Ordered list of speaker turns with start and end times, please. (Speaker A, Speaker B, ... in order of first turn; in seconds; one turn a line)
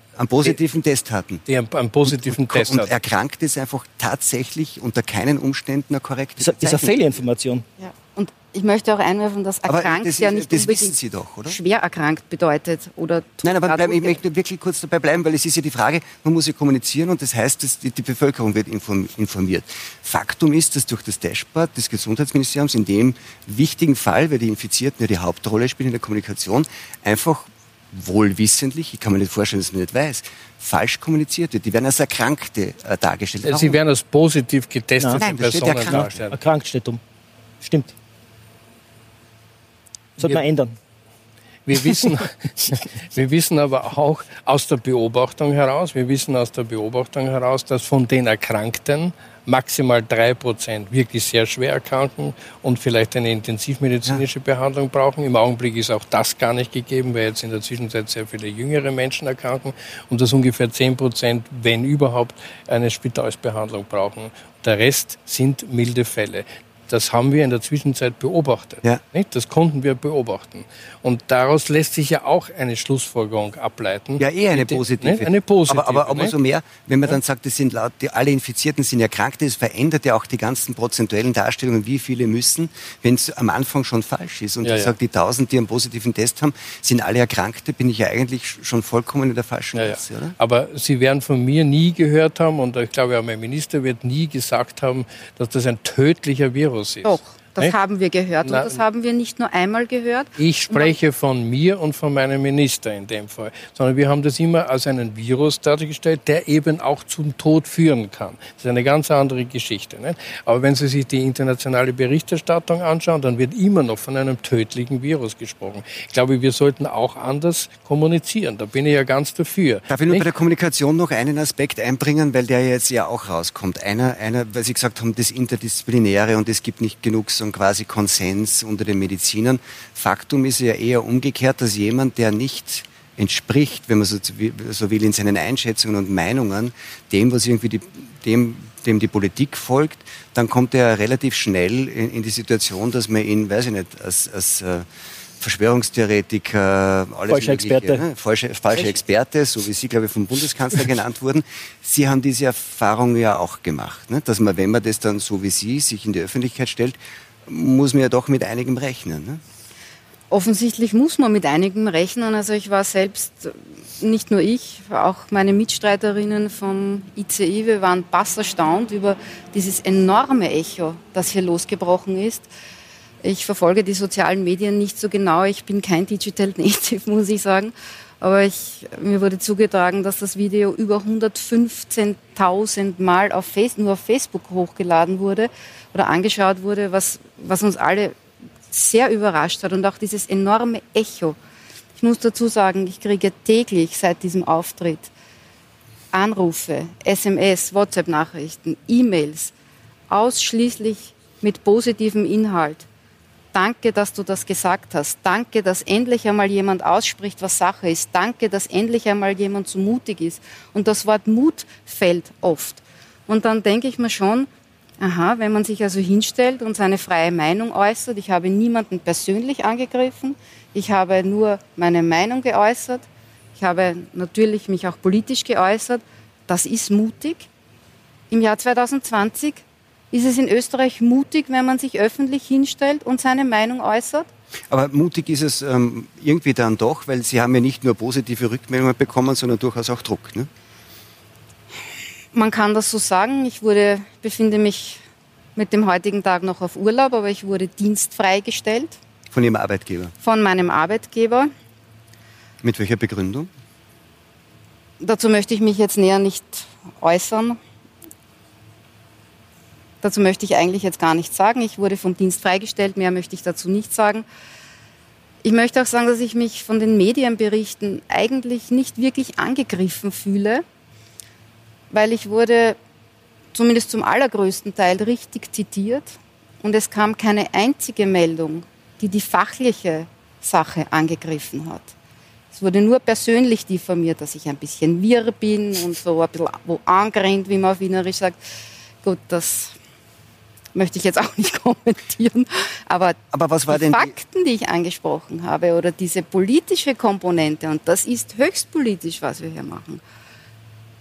Speaker A: 0.1-1.4
Speaker B: 1.5-2.9
Speaker A: 2.1-7.2
Speaker C: 6.4-7.7
Speaker D: 7.8-10.9
Speaker A: 9.7-11.6
Speaker D: 11.4-14.2
Speaker A: 13.4-33.8
Speaker B: 33.4-36.4
Speaker C: 35.0-37.0
Speaker A: 35.1-36.3
Speaker C: 37.6-37.9
Speaker C: 40.2-40.7
Speaker B: 41.6-76.3
Speaker C: 41.8-42.2
Speaker A: 74.2-90.3
Speaker B: 84.6-84.9
Speaker B: 89.7-97.7
Speaker D: 97.0-101.0
Speaker B: 98.4-98.8
Speaker B: 100.4-120.2
Speaker A: 119.9-144.8
Speaker A: 145.4-159.4
Speaker C: 147.3-148.0
Speaker D: 160.3-172.5
Speaker D: 173.2-188.1
Speaker D: 188.7-191.3
Speaker D: 192.0-195.1
Speaker D: 196.1-199.5
Speaker D: 200.1-202.9
Speaker D: 203.5-214.5
Speaker D: 215.0-223.0
Speaker D: 223.6-227.5
Speaker D: 228.3-234.3
Speaker A: 234.7-240.5
Speaker D: 242.3-245.0
Speaker D: 245.6-249.0
Speaker A: 249.3-250.1
Speaker D: 250.2-251.5
Speaker A: 252.6-253.5
Speaker D: 255.0-257.6
Speaker D: 260.0-264.2
Speaker D: 265.4-270.6
Speaker D: 271.9-272.8
Speaker D: 273.5-281.9
Speaker D: 282.5-288.4
Speaker D: 289.0-289.8
Speaker D: 290.7-293.2
Speaker A: 293.3-294.1
Speaker D: 293.7-300.0